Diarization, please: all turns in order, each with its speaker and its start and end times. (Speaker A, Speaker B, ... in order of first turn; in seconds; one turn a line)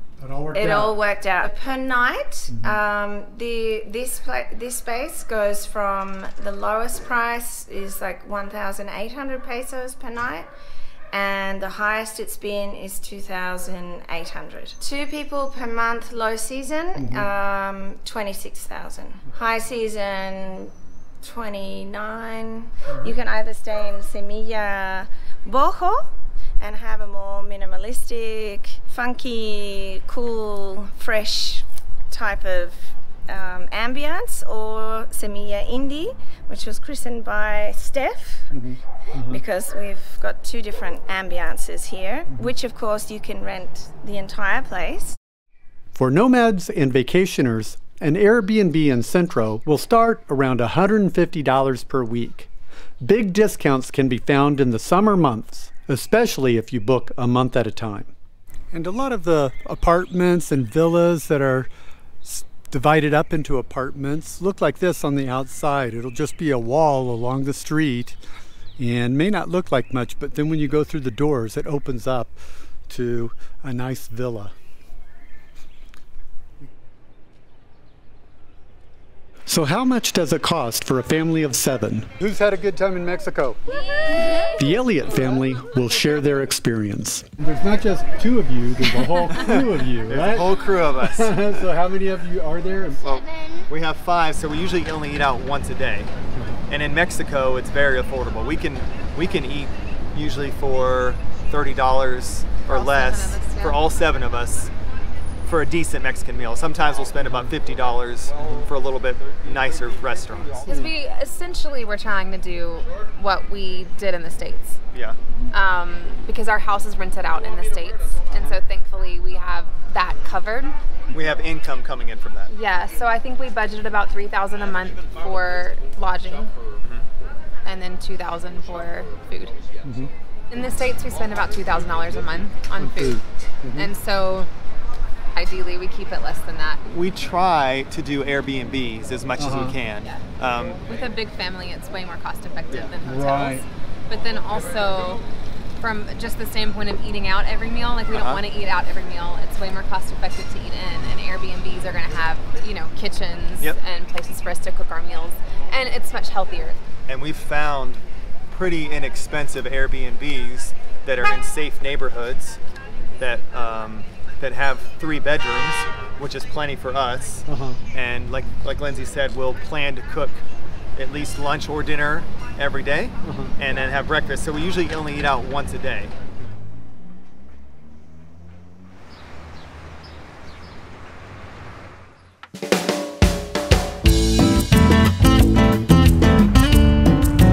Speaker A: 0.2-0.9
Speaker B: 0.5-10.5
Speaker B: 11.1-26.1
Speaker A: 17.0-17.3
Speaker B: 26.6-38.5
Speaker A: 38.5-39.4
Speaker B: 39.3-45.2
Speaker A: 46.0-52.5
Speaker A: 53.0-58.1
Speaker A: 58.7-61.7
Speaker A: 62.2-68.2
Speaker A: 68.8-74.5
Speaker A: 79.5-83.6
Speaker A: 84.6-90.5
Speaker C: 90.1-91.5
Speaker A: 91.0-93.0
Speaker C: 93.0-96.1
Speaker A: 96.3-96.6
Speaker C: 96.7-104.7
Speaker D: 102.7-103.8
Speaker C: 105.4-110.7
Speaker A: 110.7-110.9
Speaker D: 110.7-114.8
Speaker D: 115.5-120.8
Speaker C: 121.1-122.5
Speaker D: 122.5-126.6
Speaker D: 127.6-129.6
Speaker A: 129.8-130.1
Speaker D: 130.5-133.2
Speaker A: 132.8-133.9
Speaker D: 133.8-134.5
Speaker D: 135.3-136.8
Speaker C: 136.9-140.8
Speaker A: 139.4-139.8
Speaker D: 140.9-145.2
Speaker A: 143.1-143.6
Speaker D: 145.8-156.8
Speaker C: 148.1-148.4
Speaker C: 157.1-162.6
Speaker C: 163.2-170.4
Speaker A: 167.5-167.8
Speaker C: 171.0-176.1
Speaker A: 173.2-173.6